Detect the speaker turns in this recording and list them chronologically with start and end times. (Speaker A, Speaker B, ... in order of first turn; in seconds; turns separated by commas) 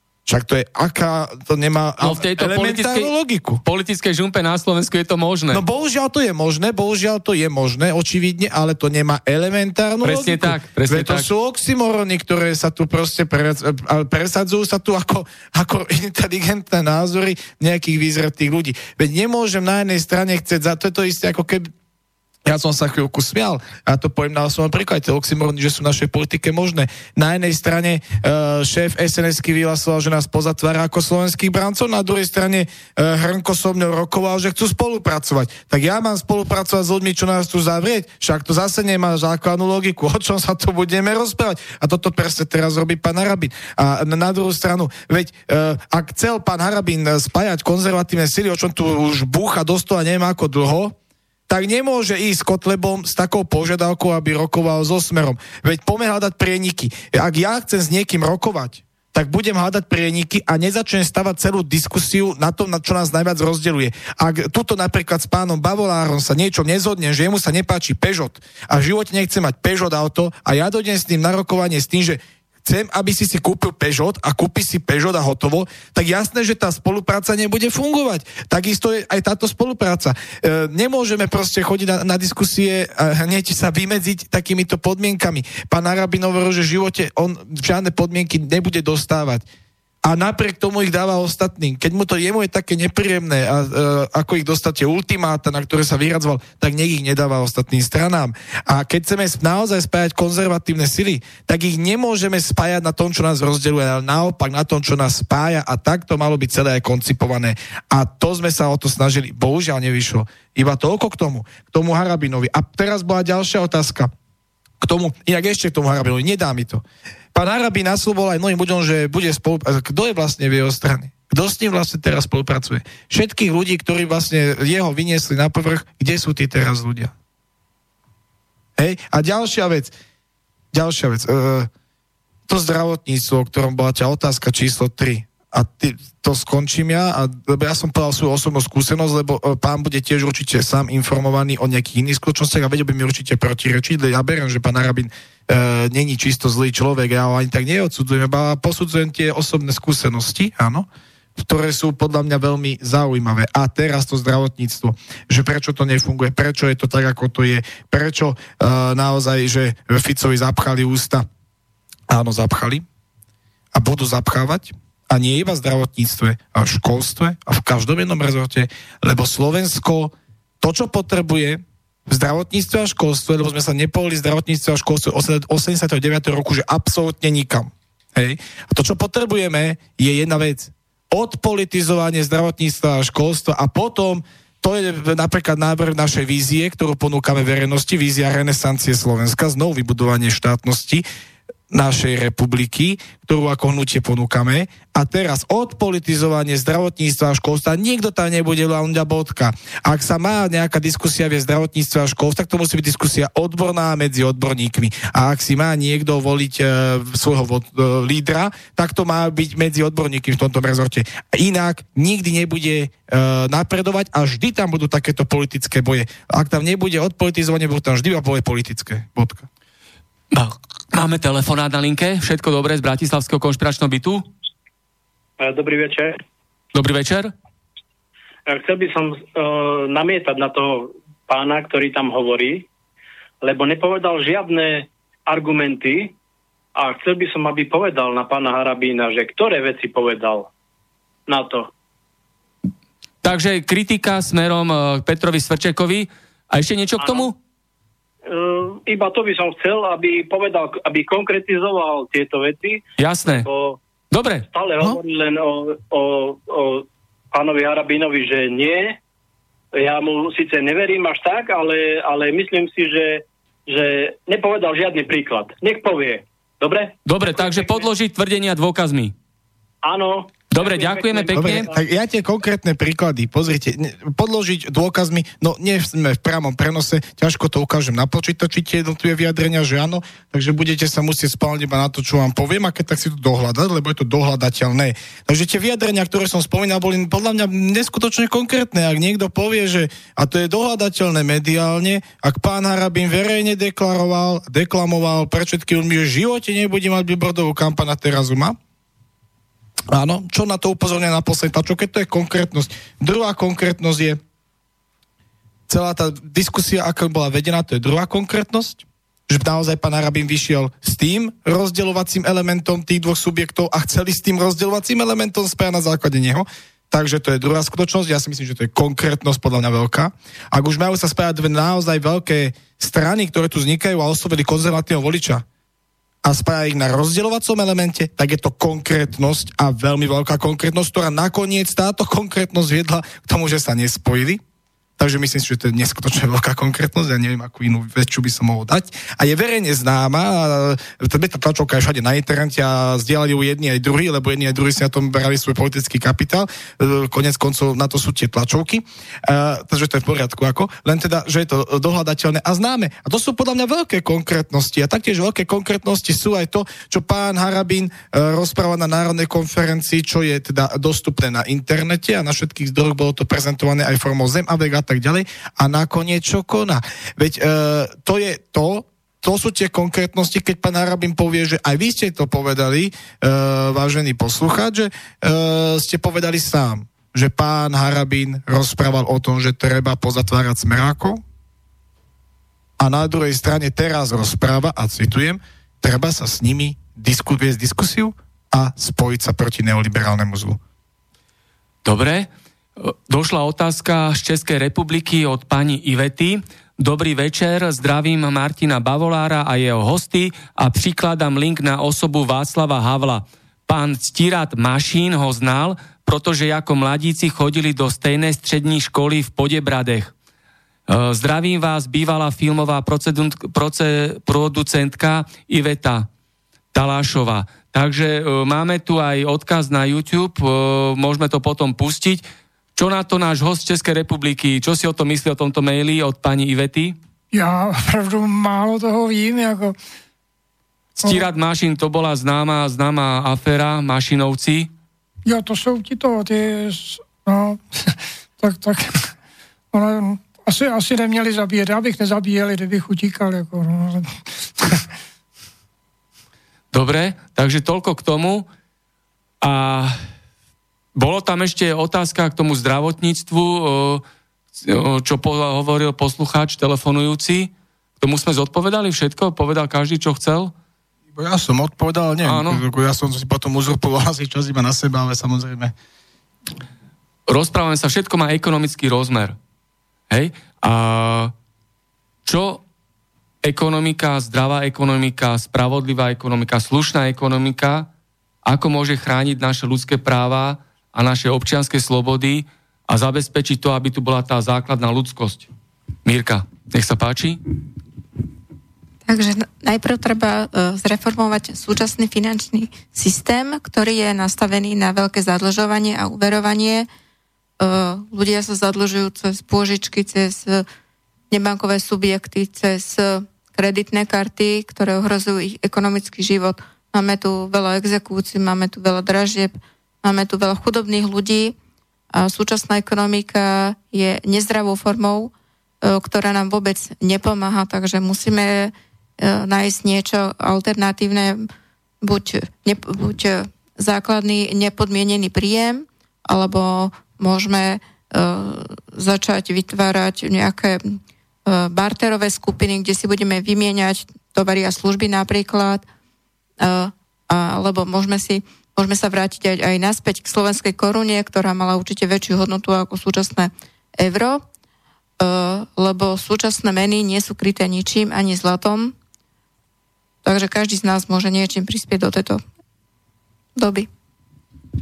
Speaker A: 0.3-3.6, Speaker B: 2.0-3.1, Speaker B: 3.6-5.6, Speaker A: 5.5-21.7, Speaker B: 10.0-11.3, Speaker A: 22.5-50.9, Speaker A: 51.5-89.4, Speaker A: 90.0-114.1, Speaker A: 114.8-116.8, Speaker A: 117.3-127.1, Speaker A: 128.8-129.9, Speaker A: 130.7-131.7, Speaker A: 132.5-150.9, Speaker A: 151.4-161.3, Speaker A: 162.1-162.8, Speaker A: 163.7-191.0, Speaker A: 191.7-219.5, Speaker B: 220.3-224.2, Speaker C: 225.4-226.2, Speaker B: 226.7-227.3, Speaker C: 228.5-232.7, Speaker C: 233.4-236.2, Speaker C: 236.8-240.5, Speaker C: 241.3-241.7, Speaker B: 243.2-247.4, Speaker C: 247.0-247.3, Speaker C: 248.3-253.8, Speaker B: 253.0-253.5, Speaker B: 254.1-254.4, Speaker C: 254.5-259.0, Speaker C: 259.8-267.9, Speaker B: 267.1-269.1, Speaker C: 269.8-271.8, Speaker B: 270.5-271.7, Speaker A: 271.3-298.6, Speaker A: 299.9-304.2, Speaker A: 305.7-325.4, Speaker A: 326.2-334.4, Speaker A: 335.0-381.2, Speaker A: 382.8-390.6, Speaker B: 391.9-410.1, Speaker B: 410.9-416.1, Speaker B: 416.7-422.2, Speaker B: 422.8-427.0, Speaker D: 427.3-429.8, Speaker B: 431.0-434.7, Speaker D: 435.3-439.1, Speaker D: 439.7-444.8, Speaker B: 446.7-448.5, Speaker B: 449.4-450.0, Speaker B: 451.0-454.0, Speaker B: 454.6-460.5, Speaker A: 461.1-465.7, Speaker B: 462.2-462.6, Speaker B: 467.3-469.4, Speaker B: 470.1-471.3, Speaker B: 472.3-472.6, Speaker B: 473.4-477.9, Speaker B: 478.5-485.5, Speaker B: 486.1-487.4, Speaker E: 489.1-496.9, Speaker E: 497.6-500.7, Speaker E: 501.3-511.6, Speaker E: 512.1-515.3, Speaker E: 515.8-521.5, Speaker E: 522.0-535.9, Speaker E: 536.6-544.4, Speaker E: 545.2-549.0, Speaker E: 550.2-552.4, Speaker E: 553.5-553.9